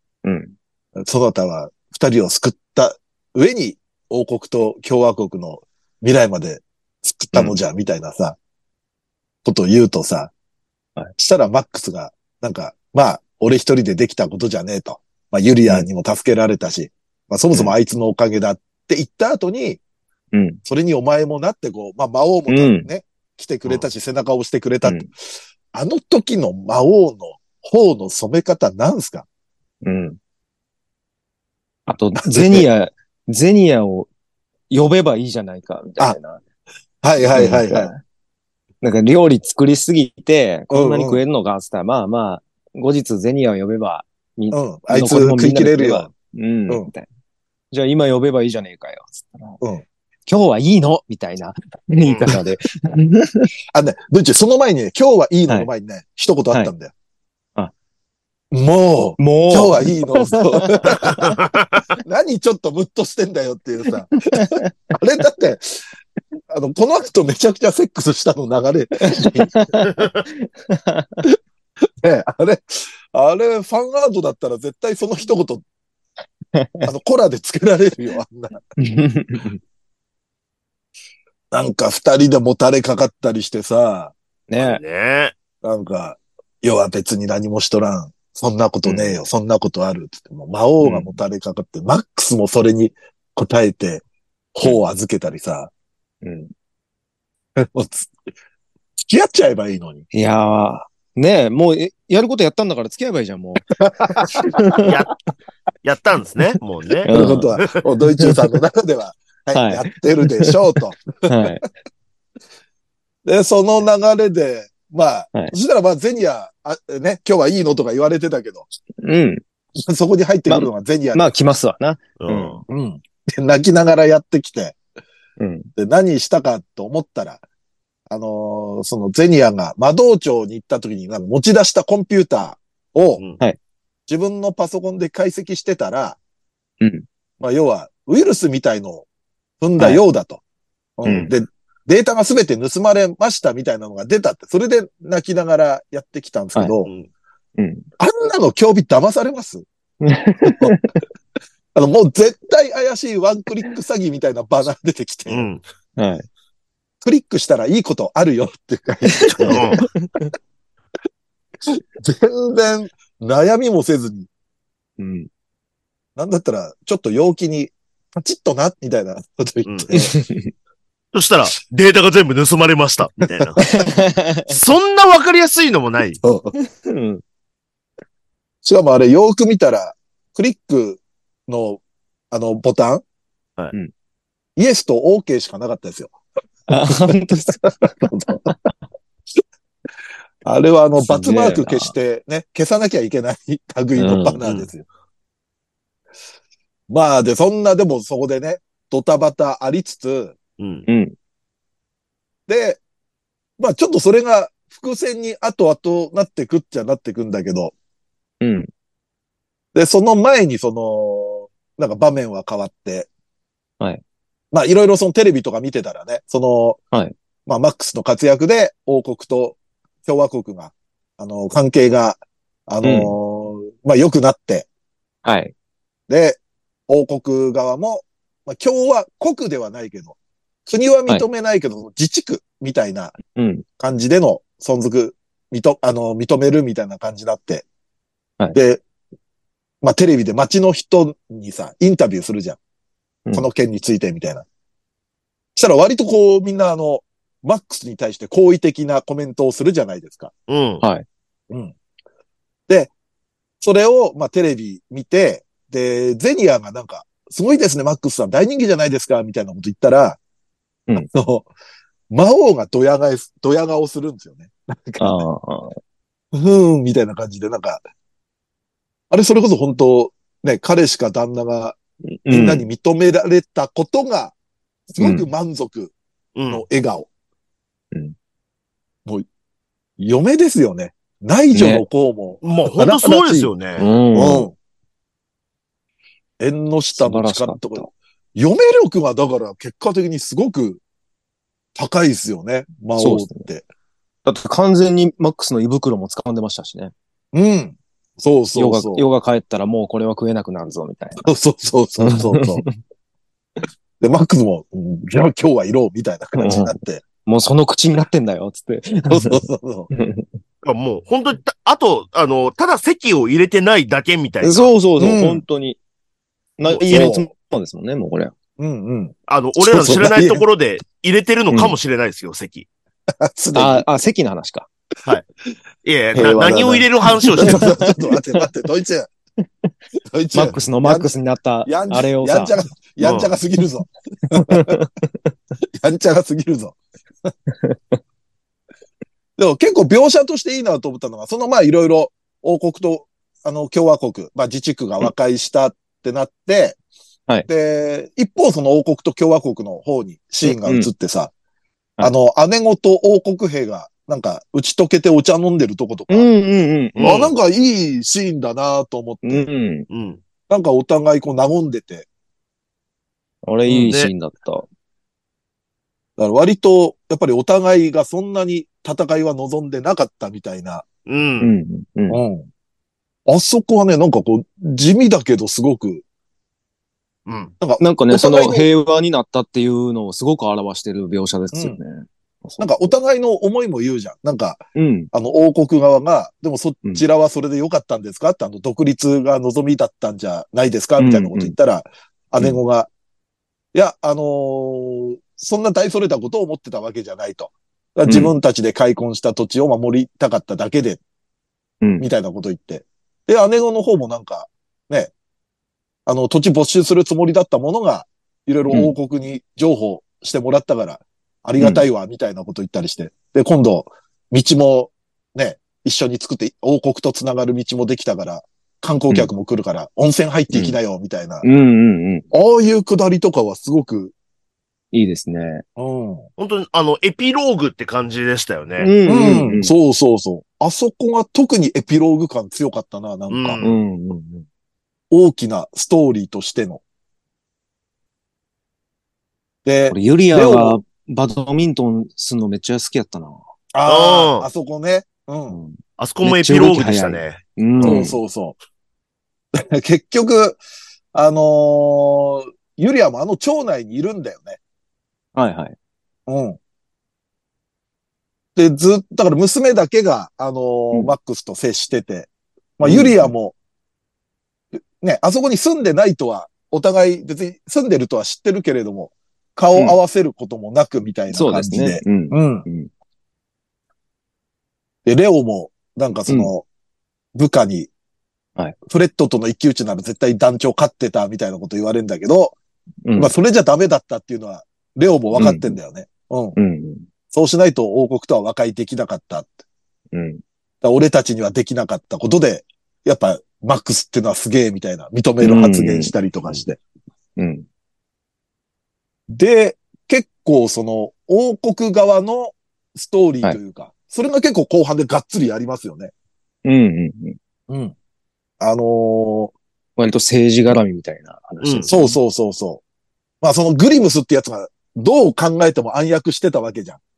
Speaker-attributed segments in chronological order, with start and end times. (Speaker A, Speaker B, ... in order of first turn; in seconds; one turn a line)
Speaker A: 0.2-0.5
Speaker B: 1.0-8.4
Speaker A: 7.3-7.6
Speaker B: 9.4-10.3
Speaker B: 11.2-19.8
Speaker A: 20.3-20.6
Speaker B: 20.6-25.1
Speaker A: 22.5-22.9
Speaker B: 25.7-29.3
Speaker A: 29.8-30.2
Speaker A: 31.9-34.1
Speaker B: 32.2-32.7
Speaker A: 34.7-36.4
Speaker B: 37.0-37.9
Speaker A: 37.2-38.0
Speaker A: 38.8-47.1
Speaker B: 40.7-41.2
Speaker B: 44.5-46.1
Speaker A: 47.7-49.6
Speaker A: 50.3-53.5
Speaker C: 52.0-52.3
Speaker B: 53.7-56.9
Speaker B: 58.5-61.4
Speaker A: 59.2-61.4
Speaker C: 61.4-61.8
Speaker B: 62.0-65.8
Speaker A: 64.2-64.9
Speaker B: 66.5-69.5
Speaker A: 69.0-71.3
Speaker C: 69.9-70.2
Speaker B: 72.0-75.6
Speaker A: 76.5-76.9
Speaker B: 76.9-78.6
Speaker A: 78.8-79.6
Speaker B: 81.5-84.2
Speaker A: 84.5-84.8
Speaker C: 84.6-85.3
Speaker B: 85.6-94.0
Speaker A: 88.8-89.2
Speaker A: 90.8-91.2
Speaker B: 94.5-95.7
Speaker A: 96.2-96.5
Speaker B: 97.6-98.1
Speaker B: 99.0-100.0
Speaker A: 100.1-104.9
Speaker B: 103.8-104.8
Speaker C: 104.8-105.2
Speaker C: 105.8-107.8
Speaker A: 107.1-107.6
Speaker B: 107.1-111.5
Speaker A: 109.5-110.5
Speaker A: 111.3-111.7
Speaker B: 113.2-118.7
Speaker A: 119.0-119.4
Speaker B: 119.8-121.3
Speaker A: 120.5-122.6
Speaker C: 122.2-122.6
Speaker B: 122.7-124.8
Speaker A: 125.4-125.7
Speaker B: 125.8-127.4
Speaker B: 128.1-133.2
Speaker B: 134.1-136.2
Speaker B: 137.4-139.1
Speaker B: 139.6-140.4
Speaker B: 141.0-146.9
Speaker A: 141.1-141.3
Speaker A: 147.6-147.9
Speaker B: 148.0-149.7
Speaker A: 150.0-150.9
Speaker B: 150.4-150.7
Speaker B: 151.8-155.5
Speaker C: 155.3-155.6
Speaker A: 156.0-156.3
Speaker B: 157.0-159.8
Speaker A: 159.1-160.3
Speaker C: 159.4-159.8
Speaker B: 161.7-164.3
Speaker A: 165.0-165.3
Speaker B: 166.2-170.1
Speaker C: 169.7-169.9
Speaker A: 169.9-170.5
Speaker C: 171.1-173.7
Speaker B: 173.4-173.8
Speaker A: 173.6-174.6
Speaker C: 174.5-176.2
Speaker B: 176.2-176.5
Speaker A: 176.6-177.2
Speaker B: 178.6-183.0
Speaker B: 184.6-186.2
Speaker A: 186.7-188.7
Speaker B: 186.9-188.5
Speaker B: 190.4-194.8
Speaker A: 191.0-191.9
Speaker A: 194.0-194.4
Speaker C: 194.4-194.7
Speaker B: 196.9-200.4
Speaker C: 200.6-200.9
Speaker A: 200.9-201.2
Speaker B: 202.5-202.8
Speaker B: 203.6-207.7
Speaker A: 208.4-208.7
Speaker B: 209.8-213.1
Speaker B: 214.5-216.8
Speaker B: 217.5-224.7
Speaker A: 222.8-223.2
Speaker A: 225.2-225.5
Speaker B: 226.1-233.2
Speaker A: 233.3-233.6
Speaker B: 233.8-237.7
Speaker B: 238.5-238.8
Speaker B: 239.8-242.6
Speaker B: 243.3-244.4
Speaker B: 245.6-250.3
Speaker C: 250.5-250.8
Speaker B: 253.6-260.2
Speaker B: 261.0-261.5
Speaker B: 262.1-265.2
Speaker A: 265.0-265.8
Speaker B: 266.3-267.8
Speaker B: 269.1-274.3
Speaker A: 272.1-272.7
Speaker B: 274.9-275.9
Speaker A: 275.0-275.3
Speaker C: 276.4-276.6
Speaker B: 276.5-277.1
Speaker B: 280.0-283.5
Speaker A: 281.5-281.9
Speaker C: 282.4-283.9
Speaker A: 283.8-284.5
Speaker B: 284.1-284.5
Speaker B: 286.4-290.8
Speaker A: 286.9-287.9
Speaker B: 291.8-293.6
Speaker A: 293.0-293.5
Speaker A: 294.2-296.9
Speaker B: 297.3-299.1
Speaker A: 298.6-301.2
Speaker B: 301.2-302.6
Speaker A: 302.0-302.8
Speaker B: 304.0-307.0
Speaker A: 306.4-310.3
Speaker B: 309.1-309.9
Speaker C: 310.6-314.7
Speaker A: 314.4-315.8
Speaker B: 315.0-315.4
Speaker A: 316.6-318.3
Speaker C: 316.7-317.1
Speaker B: 316.9-317.3
Speaker B: 318.6-320.4
Speaker C: 319.3-322.7
Speaker B: 323.2-323.9
Speaker A: 323.5-324.7
Speaker C: 325.8-327.7
Speaker B: 326.1-329.1
Speaker A: 327.3-328.2
Speaker B: 330.1-331.1
Speaker A: 330.3-332.6
Speaker B: 331.7-334.8
Speaker C: 333.0-333.3
Speaker A: 334.3-335.1
Speaker B: 335.8-336.8
Speaker A: 337.5-338.0
Speaker B: 339.4-346.8
Speaker B: 347.5-351.3
Speaker A: 350.4-350.9
Speaker B: 352.0-356.3
Speaker A: 356.1-357.0
Speaker C: 357.0-357.3
Speaker B: 357.0-359.5
Speaker A: 359.2-359.9
Speaker C: 359.9-360.2
Speaker B: 360.5-362.1
Speaker A: 363.5-364.7
Speaker C: 363.8-364.1
Speaker B: 366.2-370.9
Speaker C: 371.1-371.5
Speaker A: 371.4-372.2
Speaker B: 372.1-372.5
Speaker B: 373.3-376.0
Speaker C: 377.3-377.5
Speaker B: 377.6-378.7
Speaker A: 377.8-382.9
Speaker B: 381.5-381.8
Speaker B: 382.6-384.6
Speaker A: 384.8-385.1
Speaker B: 385.1-392.9
Speaker A: 391.0-391.6
Speaker B: 393.7-401.0
Speaker A: 398.1-398.3
Speaker B: 402.0-405.1
Speaker B: 406.1-421.4
Speaker A: 408.7-408.9
Speaker A: 411.6-411.9
Speaker A: 420.5-420.8
Speaker A: 421.4-422.3
Speaker B: 422.3-424.1
Speaker A: 424.9-425.6
Speaker B: 425.8-426.3
Speaker C: 426.4-428.9
Speaker A: 428.8-429.7
Speaker B: 429.1-433.6
Speaker C: 433.3-433.8
Speaker A: 433.6-434.4
Speaker B: 435.1-436.8
Speaker B: 439.6-440.8
Speaker A: 439.9-443.4
Speaker B: 443.7-445.6
Speaker C: 443.9-444.5
Speaker A: 445.5-448.2
Speaker C: 446.0-448.1
Speaker B: 447.8-448.6
Speaker B: 449.6-450.6
Speaker B: 451.1-454.6
Speaker A: 455.4-455.8
Speaker B: 456.3-456.6
Speaker B: 458.6-463.6
Speaker A: 462.8-463.3
Speaker B: 465.0-472.6
Speaker A: 471.3-472.9
Speaker B: 475.1-476.6
Speaker A: 476.3-476.5
Speaker B: 477.4-477.9
Speaker B: 478.9-482.6
Speaker A: 483.1-483.3
Speaker B: 483.2-486.6
Speaker A: 485.3-485.8
Speaker A: 486.6-487.1
Speaker B: 487.3-489.6
Speaker A: 490.1-490.4
Speaker B: 490.8-496.8
Speaker A: 495.4-496.6
Speaker A: 497.4-497.7
Speaker B: 499.3-506.1
Speaker A: 506.6-507.4
Speaker B: 507.7-507.9
Speaker B: 508.6-509.6
Speaker A: 510.0-512.2
Speaker C: 511.6-511.9
Speaker B: 511.9-512.8
Speaker B: 513.4-517.0